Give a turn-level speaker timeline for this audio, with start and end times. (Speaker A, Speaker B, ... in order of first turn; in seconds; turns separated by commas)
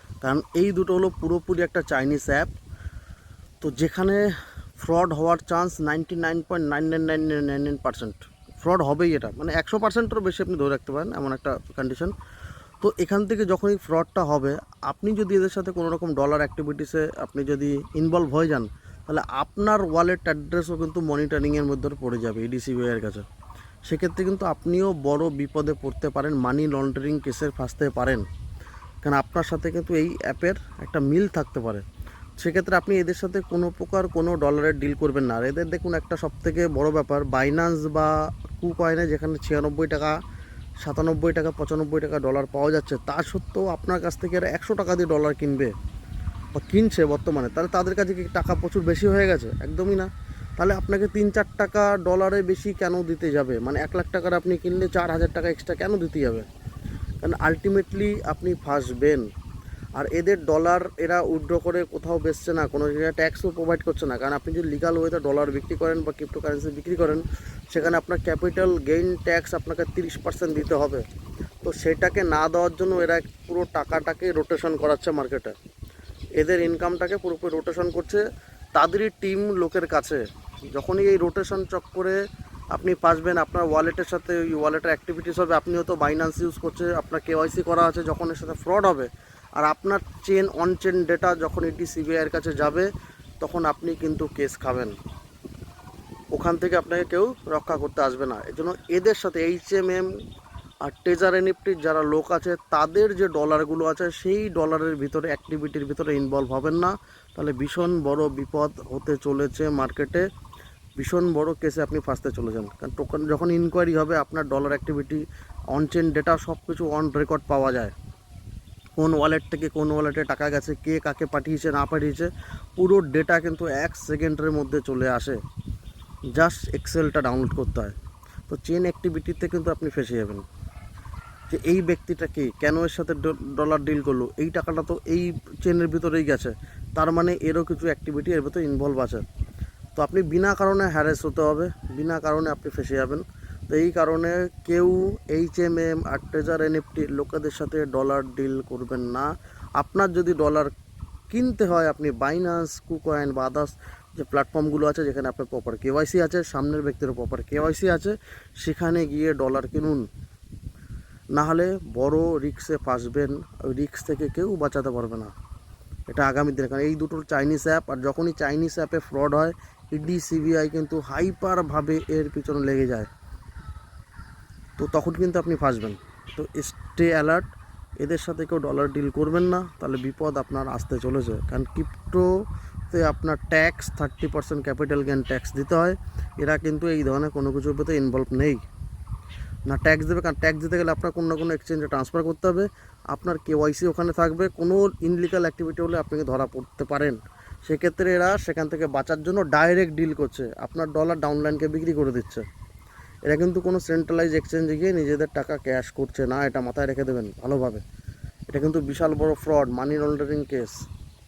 Speaker A: 0.2-2.5, Speaker A: 3.6-4.3, Speaker A: 4.8-12.1, Speaker A: 12.8-23.2, Speaker A: 23.9-28.2, Speaker A: 29.0-31.8, Speaker A: 32.4-40.1, Speaker A: 40.8-45.7, Speaker A: 46.5-56.5, Speaker A: 57.2-59.3, Speaker A: 60.0-71.0, Speaker A: 71.6-75.5, Speaker A: 76.4-78.2, Speaker A: 78.8-82.2, Speaker A: 82.7-92.9, Speaker A: 93.4-95.0, Speaker A: 96.3-100.1, Speaker A: 100.8-110.2, Speaker A: 111.0-117.9, Speaker A: 119.0-125.4, Speaker A: 126.3-128.0, Speaker A: 128.5-130.4, Speaker A: 131.5-139.2, Speaker A: 140.0-149.3, Speaker A: 149.8-150.7, Speaker A: 151.3-160.1, Speaker A: 161.3-165.3, Speaker A: 166.1-173.1, Speaker A: 174.8-177.5, Speaker A: 178.0-182.3, Speaker A: 182.9-188.6, Speaker A: 189.7-202.4, Speaker A: 203.3-207.8, Speaker A: 208.5-210.8